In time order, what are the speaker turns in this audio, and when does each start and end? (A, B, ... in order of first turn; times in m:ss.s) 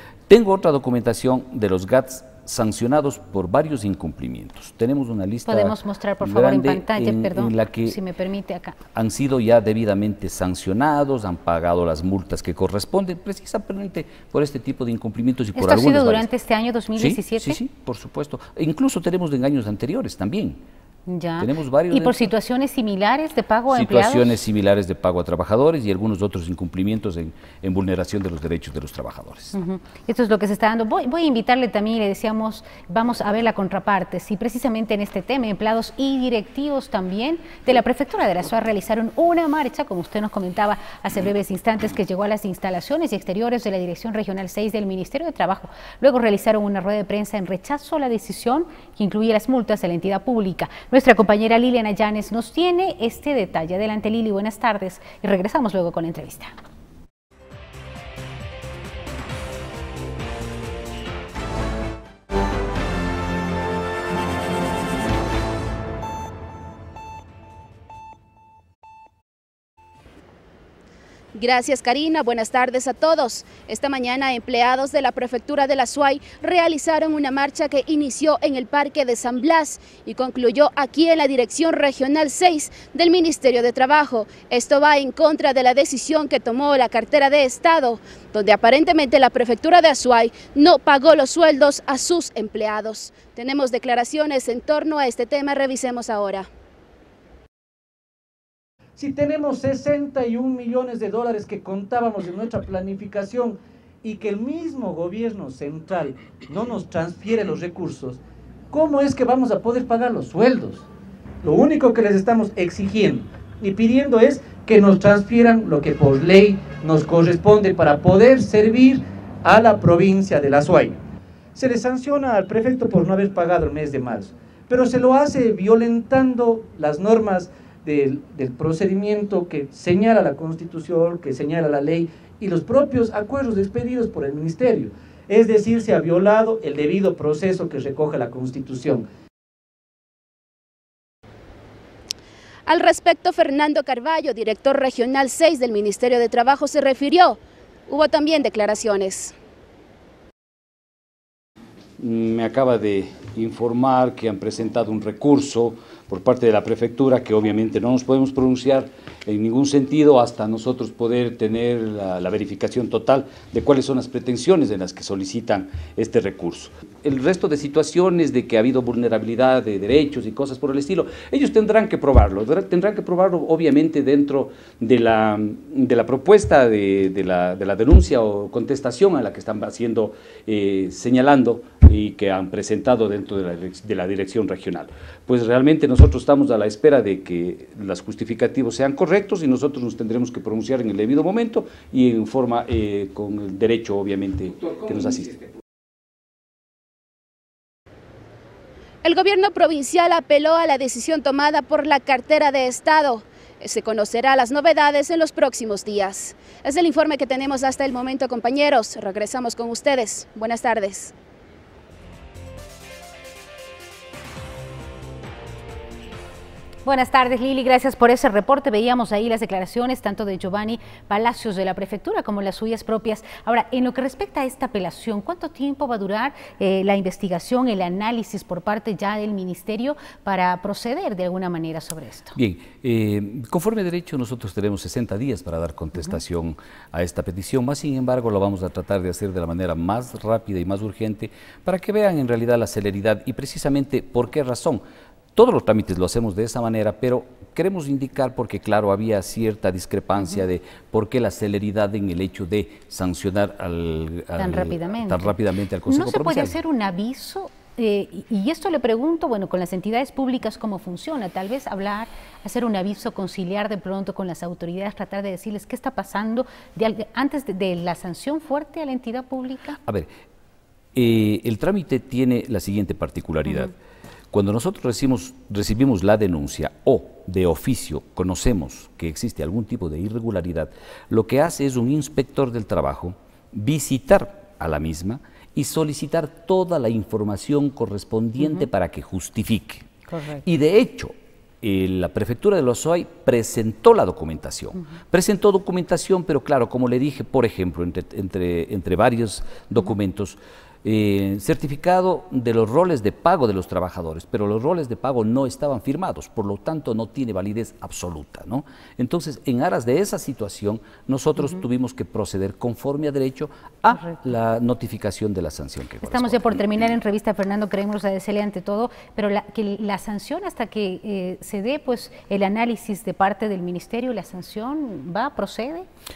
0:00.3-0:08.0 A
0:05.4-0:08.8 B
0:08.9-0:16.3 A
0:15.5-0:17.6 B
0:17.0-0:20.6 A
0:21.1-0:24.4 B
0:21.4-0:22.2 A
0:23.7-0:29.5 A
0:29.5-0:56.5 B
1:11.3-1:36.5 C
1:39.0-1:48.2 D
1:48.7-1:50.8 D
1:51.4-2:01.0 D
2:01.6-2:19.0 D
2:22.6-2:29.4 C
2:32.0-3:15.4 A
3:19.0-3:31.1 C
3:36.8-3:52.4 B
3:52.4-4:04.8 A
4:05.4-4:16.6 A
4:14.4-4:15.3 B
4:15.9-4:29.8 B
4:30.9-4:33.7 A
4:34.3-4:49.9 A
4:50.1-4:50.4 B
4:50.4-5:16.9 A
5:16.0-5:25.9 B